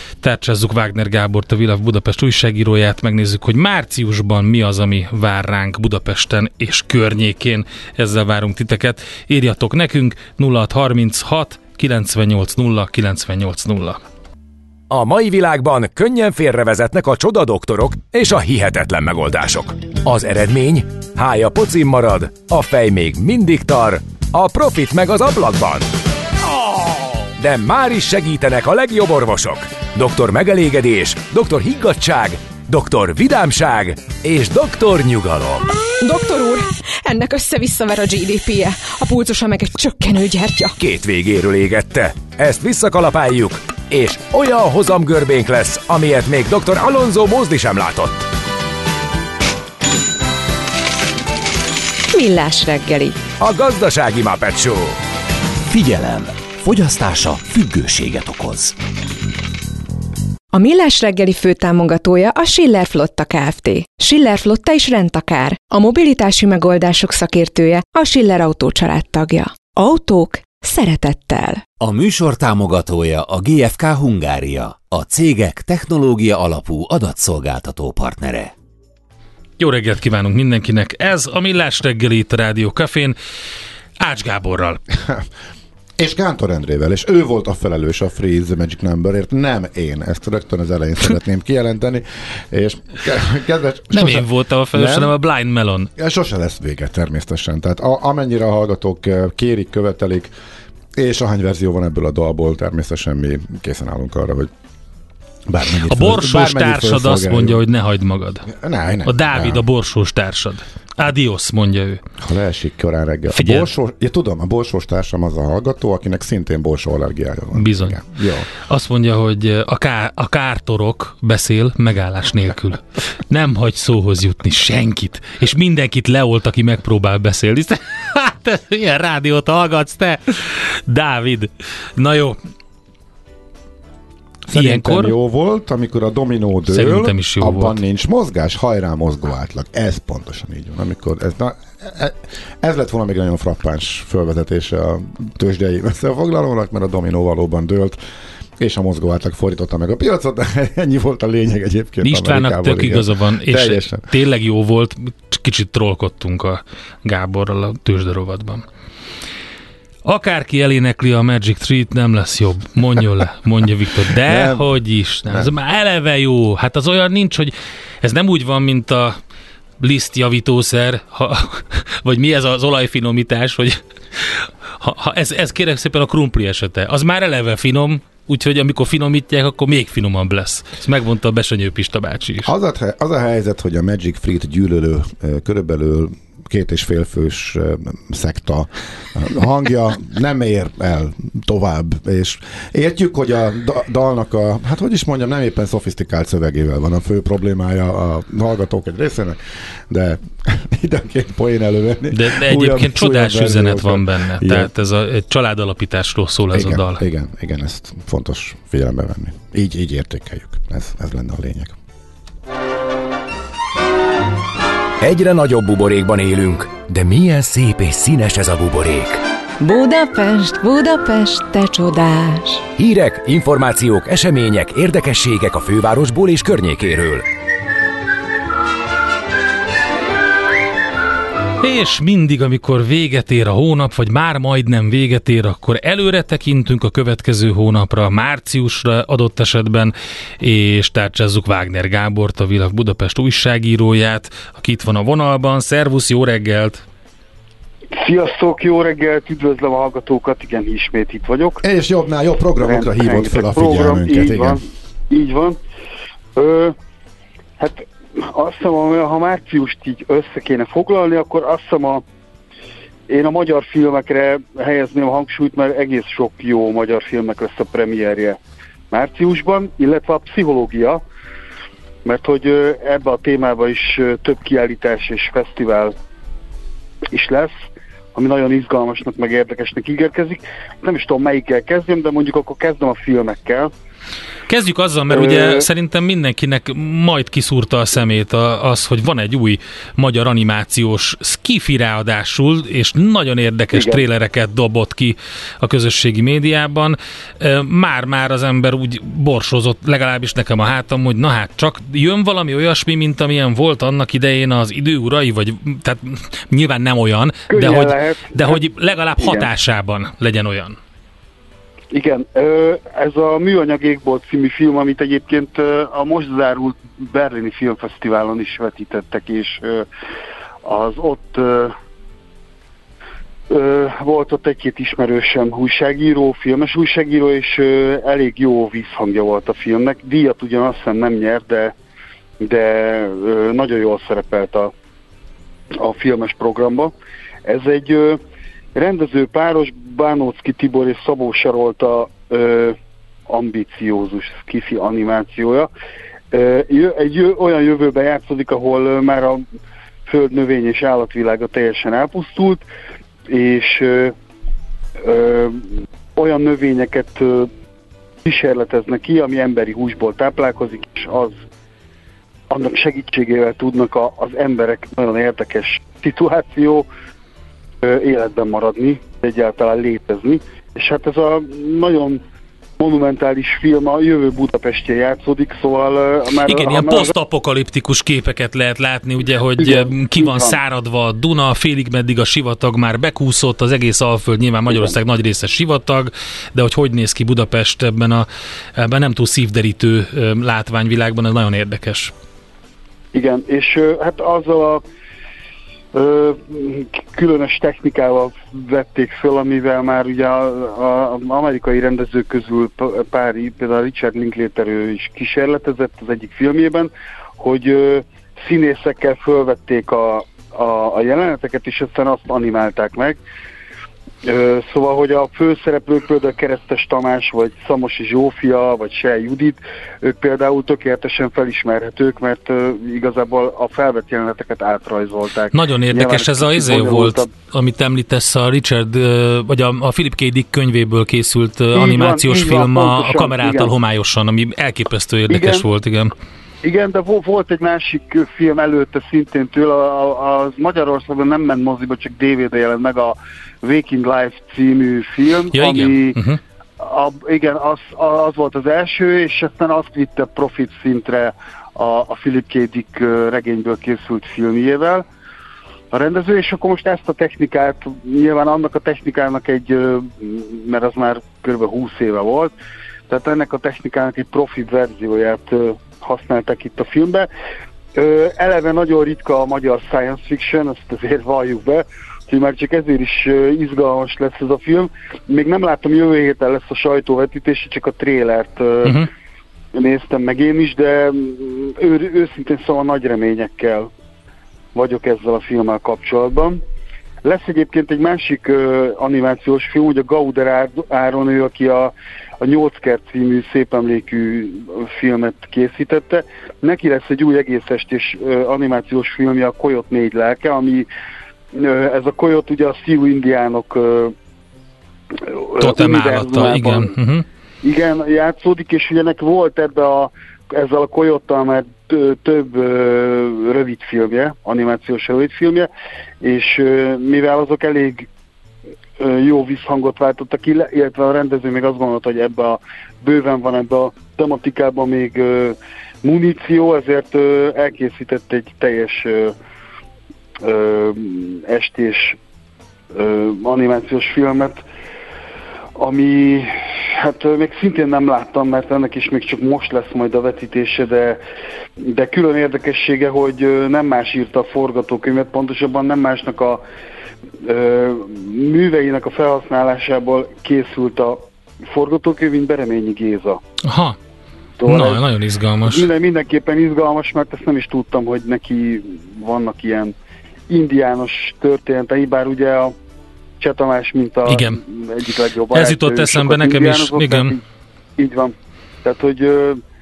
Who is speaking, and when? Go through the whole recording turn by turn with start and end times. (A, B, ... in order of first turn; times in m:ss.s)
0:00.2-0:14.0 A
0:14.9-0:25.9 B
0:27.4-0:35.7 B
0:36.0-0:40.7 C
0:40.8-0:48.3 B
0:52.1-0:53.2 C
0:53.4-0:55.0 B
0:55.7-0:58.7 D
1:00.5-1:11.6 C
1:11.8-1:18.5 D
1:19.6-1:23.1 A
1:24.0-1:24.8 A
1:24.9-1:25.2 E
1:26.0-1:35.2 E
1:33.9-1:35.9 A
1:36.0-1:40.3 E
1:41.0-1:44.5 E
1:45.5-1:47.6 E
1:45.9-1:48.5 A
1:48.5-1:49.6 E
1:49.0-1:52.0 A
1:52.2-1:58.5 E
1:53.3-1:53.7 A
1:57.5-1:58.0 A
1:58.6-2:12.4 A
2:14.5-2:28.0 E
2:14.5-2:15.1 A
2:16.7-2:17.8 A
2:28.6-2:34.1 E
2:32.0-2:38.6 A
2:40.0-2:49.2 A
2:44.2-2:45.5 E
2:49.8-3:02.5 A
3:02.4-3:24.7 E
3:22.1-3:27.0 A
3:26.5-3:31.8 E
3:35.0-3:39.2 B
3:39.6-3:42.6 C
3:42.8-3:47.2 B
3:51.6-4:06.8 A
4:08.0-4:11.6 F
4:11.6-4:14.6 E
4:12.6-4:15.6 F
4:16.4-4:16.7 F
4:17.6-4:22.0 F
4:23.1-4:28.4 F
4:28.9-4:31.0 F
4:32.0-4:35.9 F
4:37.1-4:37.5 F
4:38.1-4:43.7 F
4:44.5-5:10.8 A
4:45.1-4:45.6 F
4:53.7-4:54.0 F
5:07.5-5:08.6 F
5:09.2-5:09.5 F
5:11.9-5:19.8 F
5:20.6-5:21.8 F
5:23.5-5:31.7 F
5:32.4-5:34.7 F
5:35.8-5:36.9 F
5:37.4-5:38.2 F
5:38.7-5:42.8 F
5:43.3-5:45.7 F
5:46.3-5:49.4 F
5:50.0-5:52.6 F
5:53.3-5:54.2 F
5:55.0-5:57.5 F
5:58.2-6:01.4 F
6:02.5-6:06.9 F
6:07.8-6:12.2 F
6:12.8-6:17.1 F
6:16.4-6:32.1 A
6:19.6-6:20.6 F
6:33.1-6:34.8 F
6:35.9-6:53.2 F
6:54.2-7:07.3 F
7:05.5-7:16.1 A
7:11.7-7:13.7 F
7:15.3-7:15.7 F
7:16.6-7:26.2 F
7:25.5-7:26.4 A
7:26.8-7:35.0 F
7:35.9-7:42.5 F
7:43.1-7:47.3 F
7:47.9-7:59.1 F
7:59.7-8:03.9 F
8:04.7-8:06.6 F
8:07.2-8:20.9 F
8:21.5-8:24.1 F
8:25.2-8:26.9 F
8:25.6-8:27.2 A
8:27.6-8:35.7 F
8:36.2-8:38.1 F
8:39.0-8:49.3 F
8:50.4-8:52.2 F
8:52.9-8:54.6 F
8:55.8-9:01.2 F
9:01.8-9:06.6 F
9:07.4-9:13.4 F
9:13.6-9:14.0 A
9:14.6-9:15.0 F
9:14.6-9:15.8 A
9:15.6-9:19.9 F
9:20.5-9:22.7 F
9:23.4-9:27.4 F
9:24.3-9:24.6 A
9:25.5-9:27.4 A
9:28.0-9:29.6 F